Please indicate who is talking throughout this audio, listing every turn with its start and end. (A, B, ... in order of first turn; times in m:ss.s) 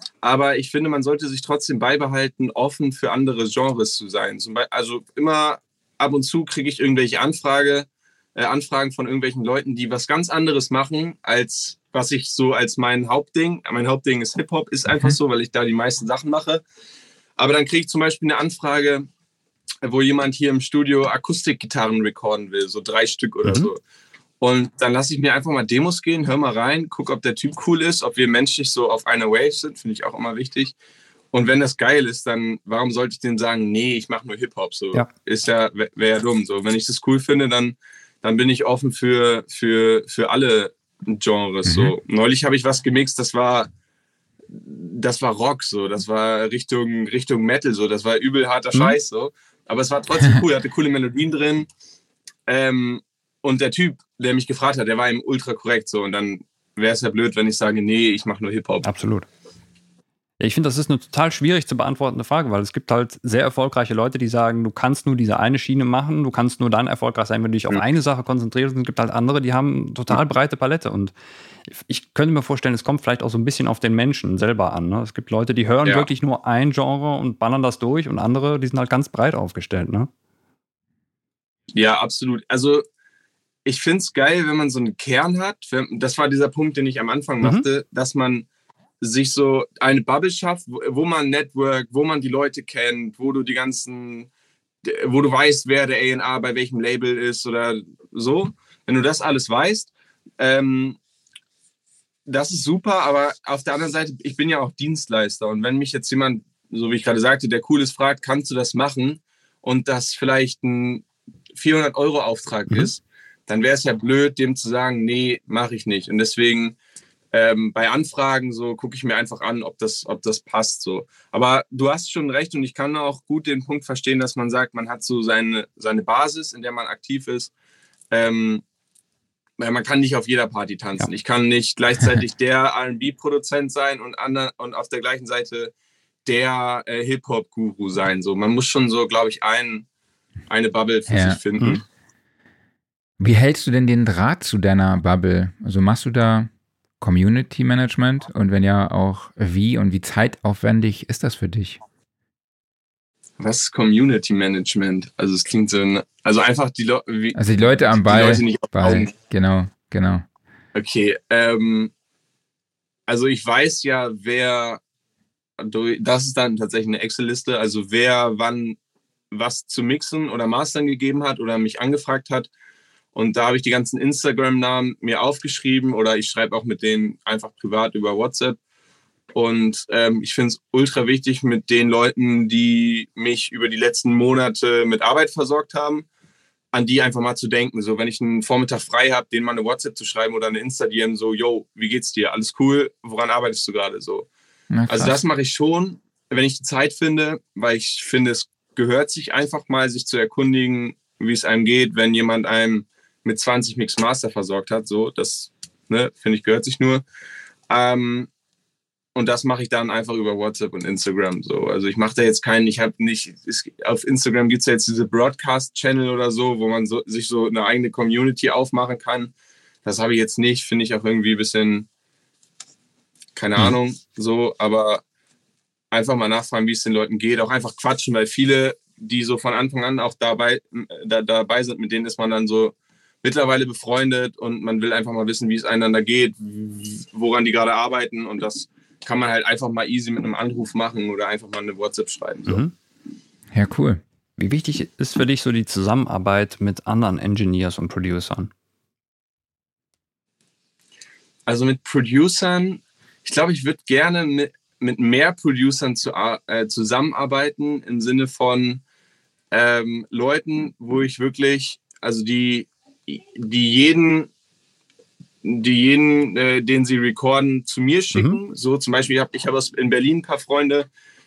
0:00.2-0:16.6 A
0:14.9-0:15.2 B
0:17.4-0:19.1 A
0:19.8-0:23.8 A
0:24.4-0:30.7 A
0:31.3-0:43.7 A
0:44.5-0:51.7 A
0:52.5-0:58.9 A
0:58.8-0:59.3 B
1:00.4-1:11.1 B
1:11.7-1:20.1 B
1:21.7-1:22.8 A
1:23.7-1:28.5 A
1:27.4-1:27.7 B
1:29.0-1:34.3 A
1:34.8-1:41.0 A
1:42.3-1:56.8 A
1:57.3-2:07.5 A
2:08.1-2:08.6 A
2:09.6-2:15.7 A
2:16.2-2:19.9 A
2:20.5-2:21.8 A
2:21.1-2:21.4 C
2:23.2-2:31.8 C
2:33.4-2:39.1 A
2:37.4-2:40.2 C
2:40.8-2:41.9 A
2:43.1-2:44.8 A
2:45.6-2:48.8 A
2:49.3-2:52.5 A
2:53.1-2:58.6 A
2:59.3-3:06.1 A
3:06.7-3:14.3 A
3:14.7-3:15.2 C
3:14.9-3:27.0 A
3:27.7-3:28.3 A
3:29.2-3:39.3 A
3:39.8-3:41.9 A
3:43.4-3:45.0 A
3:45.9-4:02.6 A
4:02.5-4:02.7 B
4:03.5-4:04.0 C
4:04.4-4:08.5 B
4:11.5-4:18.8 A
4:19.5-4:24.3 A
4:25.4-4:30.9 A